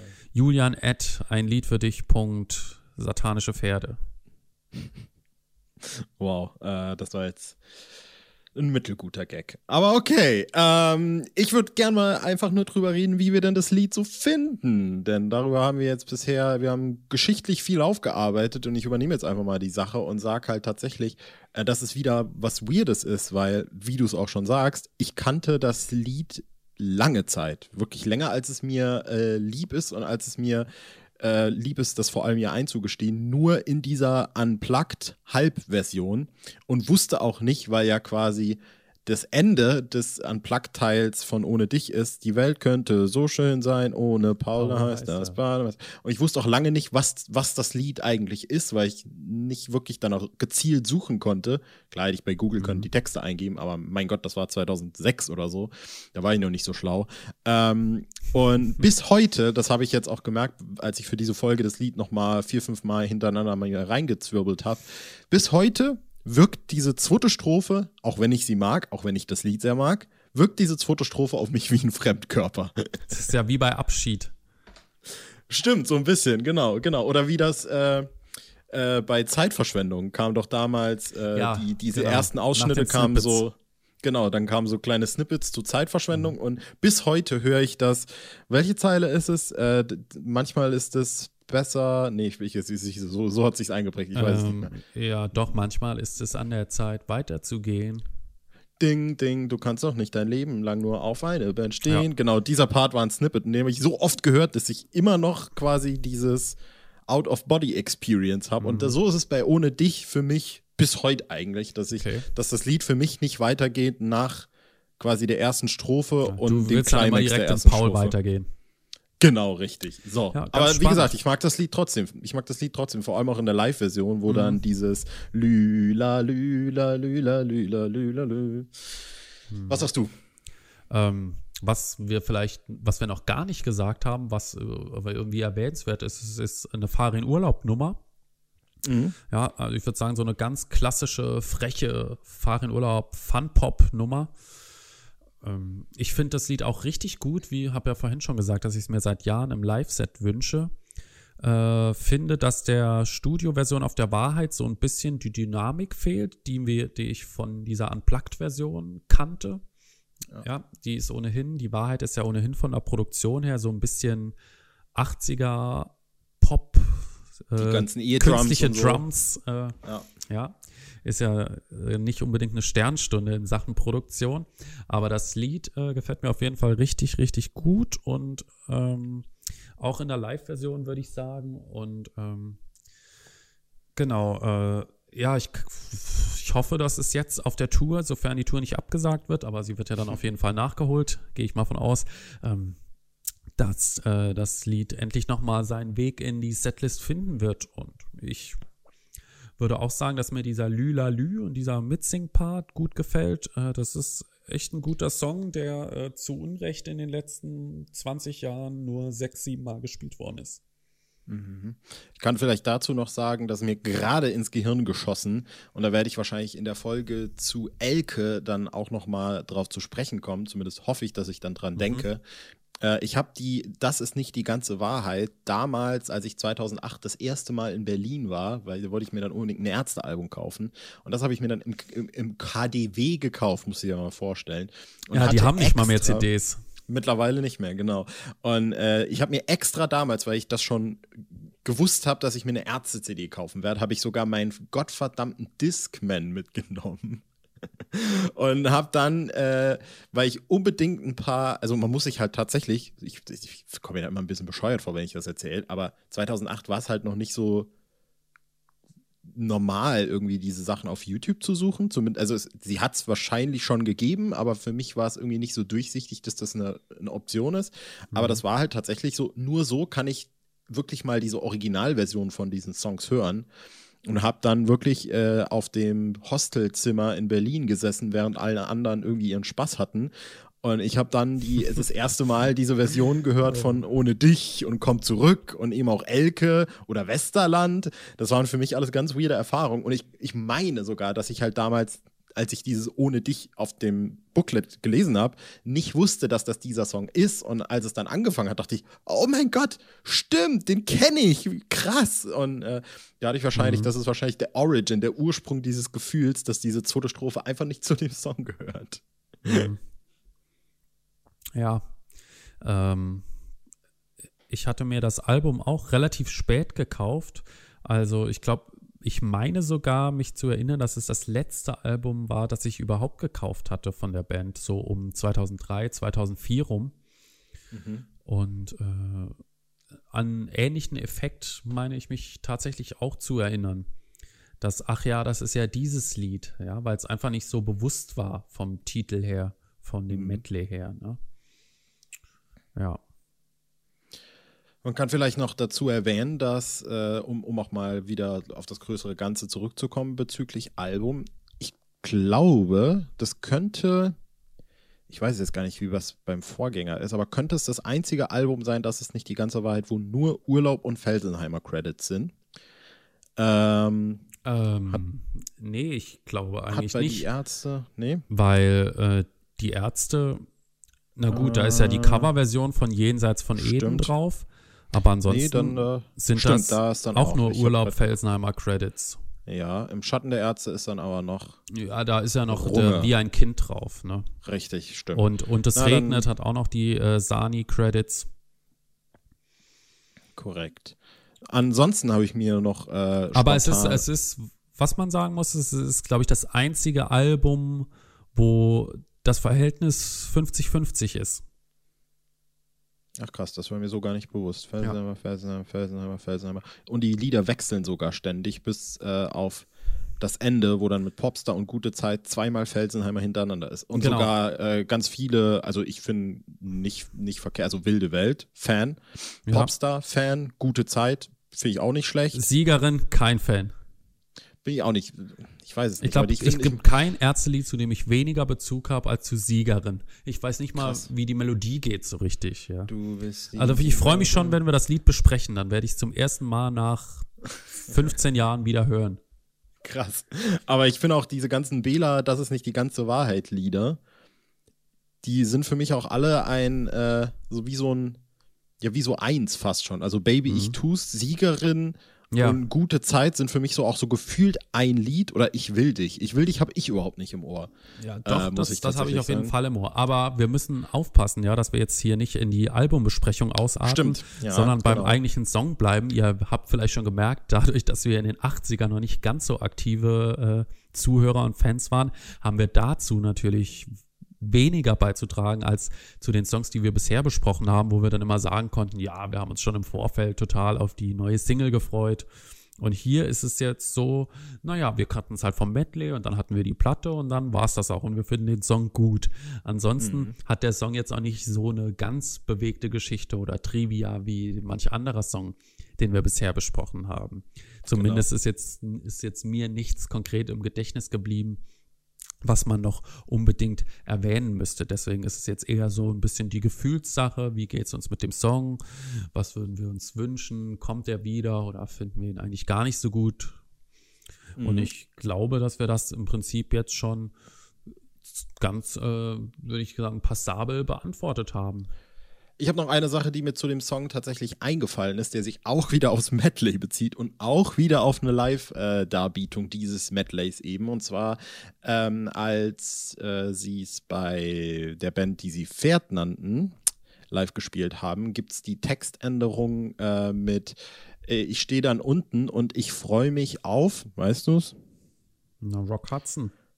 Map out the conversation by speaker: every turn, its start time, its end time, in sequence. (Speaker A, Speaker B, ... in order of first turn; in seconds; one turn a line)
Speaker A: 0.3-4.0
Speaker B: 5.8-7.6
Speaker B: 8.5-30.7
Speaker B: 31.2-73.0
Speaker A: 44.5-45.4
Speaker A: 52.6-52.9
Speaker A: 73.1-74.3
Speaker B: 75.5-78.1
Speaker B: 78.7-94.7
Speaker A: 81.3-83.4
Speaker A: 94.1-98.0
Speaker B: 98.8-118.1
Speaker A: 108.6-109.0
Speaker A: 111.9-112.3
Speaker A: 116.2-118.5
Speaker B: 119.2-128.9
Speaker A: 120.3-121.1
Speaker A: 124.3-124.6
Speaker A: 129.5-129.9
Speaker B: 129.7-130.1
Speaker A: 130.9-138.0
Speaker B: 138.8-139.2
Speaker A: 139.3-144.3
Speaker A: 145.4-150.7
Speaker A: 151.4-159.6
Speaker A: 160.4-164.3
Speaker A: 164.9-182.6
Speaker B: 167.6-169.0
Speaker B: 169.8-170.1
Speaker A: 183.9-192.8
Speaker A: 193.6-198.6
Speaker A: 199.6-210.6
Speaker B: 211.3-222.2
Speaker A: 221.8-222.1
Speaker B: 222.8-236.2
Speaker A: 235.1-236.6
Speaker B: 236.9-247.2
Speaker B: 247.9-257.7
Speaker B: 259.2-273.5
Speaker A: 268.1-268.4
Speaker B: 274.0-309.7
Speaker A: 303.5-303.9
Speaker A: 309.4-309.8
Speaker A: 311.5-311.9
Speaker A: 312.6-313.2
Speaker A: 314.5-326.9
Speaker B: 327.7-328.1
Speaker A: 328.2-329.4
Speaker A: 330.1-333.9
Speaker A: 334.6-341.2
Speaker B: 340.1-340.4
Speaker B: 344.8-354.1
Speaker B: 355.1-362.3
Speaker B: 363.4-364.2
Speaker A: 364.4-367.3
Speaker B: 366.7-368.2
Speaker A: 368.3-370.4
Speaker A: 371.1-379.2
Speaker B: 371.3-372.3
Speaker B: 373.6-374.1
Speaker B: 375.3-378.0
Speaker B: 379.5-381.6
Speaker A: 381.7-384.3
Speaker B: 382.5-383.1
Speaker B: 384.4-386.2
Speaker A: 385.1-388.3
Speaker B: 390.4-391.0
Speaker B: 391.5-394.0
Speaker A: 393.3-401.4
Speaker B: 403.2-409.7
Speaker B: 410.2-422.4
Speaker A: 413.9-414.3
Speaker A: 419.5-419.7
Speaker A: 422.3-423.7
Speaker B: 424.6-426.8
Speaker A: 426.0-432.9
Speaker B: 430.8-431.1
Speaker B: 432.9-434.6
Speaker A: 433.6-437.3
Speaker A: 437.8-439.2
Speaker B: 439.8-444.0
Speaker B: 445.2-448.2
Speaker B: 448.8-457.7
Speaker A: 450.5-450.8
Speaker A: 452.3-452.6
Speaker A: 458.0-482.2
Speaker B: 458.2-459.5
Speaker B: 463.8-465.2
Speaker A: 482.8-501.6
Speaker B: 490.0-490.3
Speaker B: 497.9-498.2
Speaker A: 502.4-513.6
Speaker B: 514.6-514.9
Speaker A: 514.6-517.3
Speaker A: 518.4-521.9
Speaker B: 522.6-536.7
Speaker B: 537.3-544.7
Speaker A: 545.6-546.5